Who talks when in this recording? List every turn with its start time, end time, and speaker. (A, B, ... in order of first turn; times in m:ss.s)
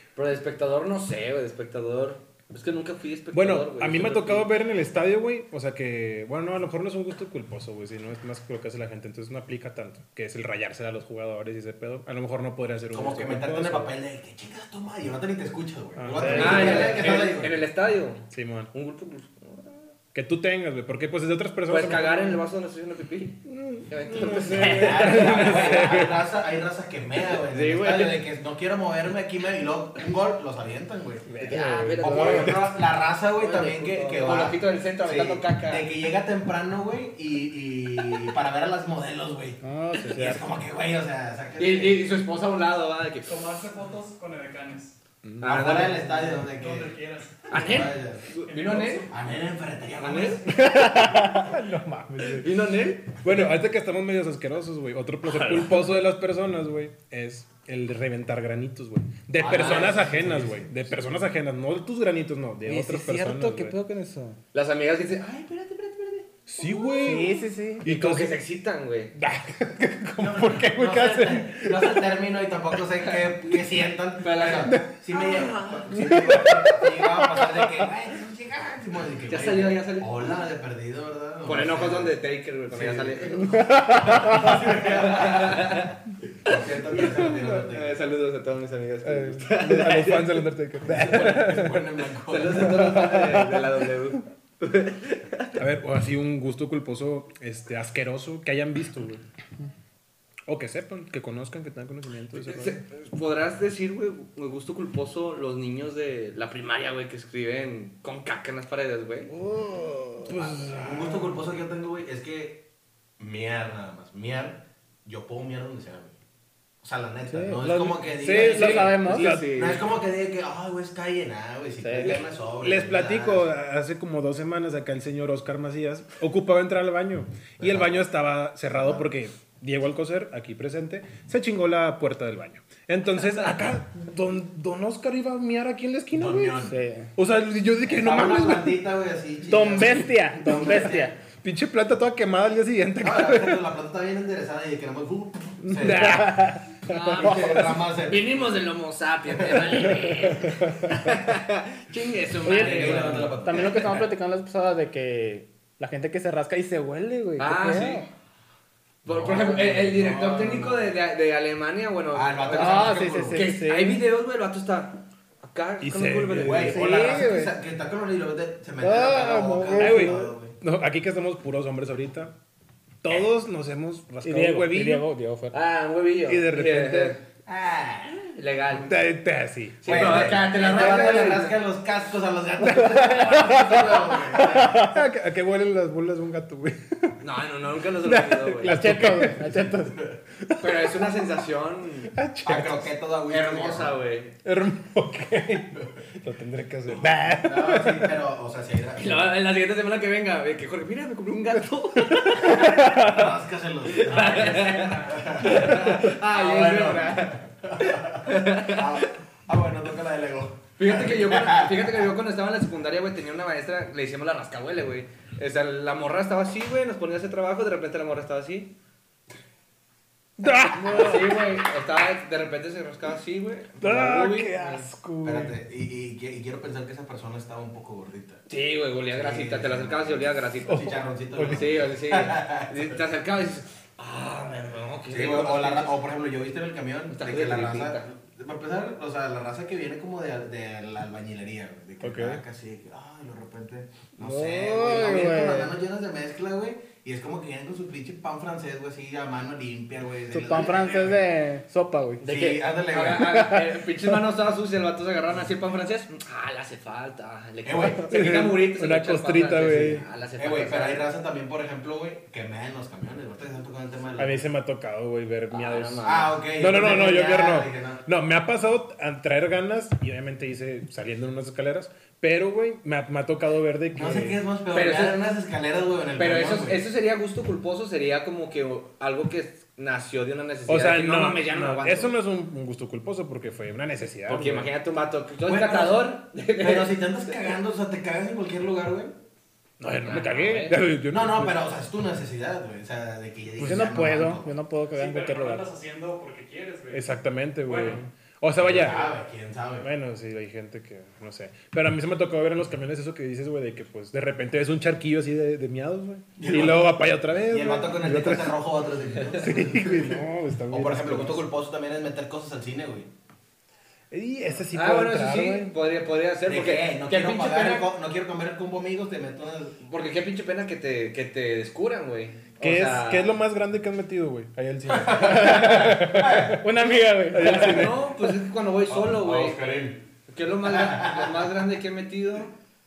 0:00.2-0:04.5 A
0:03.3-0:14.0 B
0:12.9-0:17.6 C
0:16.0-0:17.4 B
0:16.1-0:17.0 D
0:16.3-0:19.9 A
0:18.3-0:18.7 B
0:20.1-0:22.4 B
0:21.7-0:26.2 A
0:23.5-0:26.2 B
0:24.6-0:42.1 C
0:27.3-0:28.3 A
0:31.3-0:32.7 B
0:31.4-0:35.9 A
0:31.6-0:32.4 D
0:39.6-0:40.6 D
0:41.6-0:43.4 A
0:43.3-0:45.0 E
0:45.2-0:45.8 B
0:45.4-0:46.4 A
0:45.4-0:47.0 C
0:46.5-0:47.7 E
0:47.5-0:49.1 A
0:47.5-0:48.3 C
0:48.4-0:49.1 E
0:49.1-0:50.5 C
0:50.0-0:50.5 A
0:50.5-0:51.5 D
0:50.8-0:52.5 B
0:52.2-0:53.5 A
0:53.2-1:03.8 B
0:55.2-0:55.8 A
0:59.4-1:01.2 C
0:59.4-1:00.1 A
1:02.6-1:04.4 D
1:04.5-1:07.2 A
1:06.5-1:08.4 B
1:07.0-1:07.8 D
1:07.8-1:09.1 A
1:09.2-1:12.1 B
1:10.2-1:22.2 C
1:14.2-1:16.6 A
1:16.1-1:16.5 B
1:19.3-1:20.4 A
1:21.4-1:25.9 A
1:22.7-1:25.9 C
1:23.5-1:24.5 D
1:26.4-1:28.0 C
1:26.5-1:30.5 A
1:29.0-1:31.9 B
1:30.8-1:33.1 C
1:32.3-1:35.6 A
1:32.5-1:33.7 B
1:35.6-1:39.2 B
1:40.5-1:42.8 B
1:42.3-1:49.3 A
1:49.6-1:50.3 D
1:50.2-1:51.4 B
1:50.7-1:52.7 C
1:53.2-1:56.1 C
1:56.8-2:03.5 C
1:57.3-1:59.3 D
1:57.6-1:59.8 B
1:59.1-1:59.8 A
2:01.8-2:02.2 D
2:02.6-2:18.9 B
2:07.6-2:08.1 C
2:08.8-2:09.1 C
2:16.1-2:16.8 C
2:16.6-2:17.1 D
2:17.9-2:21.2 C
2:19.5-2:21.1 D
2:21.4-2:23.6 B
2:23.0-2:26.4 C
2:25.7-2:27.4 B
2:25.8-2:26.6 D
2:26.9-2:33.8 A
2:26.9-2:28.3 C
2:29.4-2:29.8 C
2:30.3-2:30.9 B
2:32.4-2:38.1 D
2:32.5-2:34.0 C
2:37.4-2:38.1 A
2:39.0-2:40.9 C
2:39.0-2:46.9 A
2:42.1-2:43.5 C
2:42.5-2:44.0 D
2:45.8-2:47.1 B
2:46.4-2:50.6 C
2:46.7-2:47.6 D
2:48.8-2:50.3 D
2:49.8-2:52.4 B
2:53.0-2:55.1 B
2:54.2-2:55.6 D
2:55.5-2:57.2 A
2:56.3-2:57.2 B
2:57.5-2:58.2 C
2:58.1-2:59.0 A
2:58.9-3:00.5 B
2:59.8-3:01.6 A
2:59.8-3:04.8 C
3:02.7-3:05.0 D
3:04.5-3:07.2 B
3:07.2-3:08.8 A
3:08.0-3:09.7 B
3:08.6-3:10.0 D
3:10.4-3:11.2 B
3:10.6-3:12.1 A
3:12.1-3:12.9 B
3:12.4-3:14.0 C
3:13.3-3:14.4 A
3:14.4-3:18.1 B
3:16.9-3:19.4 C
3:19.0-3:23.2 A
3:22.1-3:22.9 B
3:22.5-3:32.0 C
3:23.9-3:29.1 A
3:30.8-3:38.7 A
3:40.4-3:41.5 B
3:40.8-3:44.9 A
3:43.8-3:45.6 B
3:45.2-3:48.4 C
3:48.5-3:56.0 A
3:49.1-3:53.0 C
3:50.6-3:51.8 B
3:55.1-4:11.2 C
3:57.1-3:58.1 A
4:02.0-4:02.4 B
4:04.2-4:05.7 D
4:10.3-4:12.3 D
4:12.2-4:13.6 C
4:12.2-4:21.1 A
4:13.3-4:13.6 D
4:17.6-4:18.1 C
4:18.0-4:20.1 B
4:20.4-4:24.5 C
4:24.2-4:34.4 B
4:25.5-4:26.4 A
4:26.0-4:28.0 C
4:33.9-4:36.8 C
4:34.7-4:35.4 A
4:36.2-4:42.2 A
4:40.7-4:44.7 B
4:44.3-4:47.6 A
4:45.5-4:49.2 C
4:49.8-4:51.6 B
4:50.0-4:50.8 A
4:51.1-4:54.5 C
4:53.6-4:54.1 B
4:53.6-4:55.7 D
4:55.0-4:58.0 E
4:56.9-4:59.1 B
4:58.6-4:59.9 C
4:59.8-5:08.6 B
5:06.4-5:13.1 C
5:09.3-5:11.5 B
5:14.1-5:15.8 B
5:14.7-5:17.9 A
5:16.5-5:19.8 C
5:19.8-5:23.3 A
5:22.6-5:26.6 B
5:24.9-5:26.6 C
5:25.2-5:25.8 D
5:26.5-5:27.7 D
5:27.3-5:28.0 B
5:27.4-5:29.7 A
5:28.9-5:30.0 C
5:30.3-5:32.5 A
5:30.7-5:31.3 C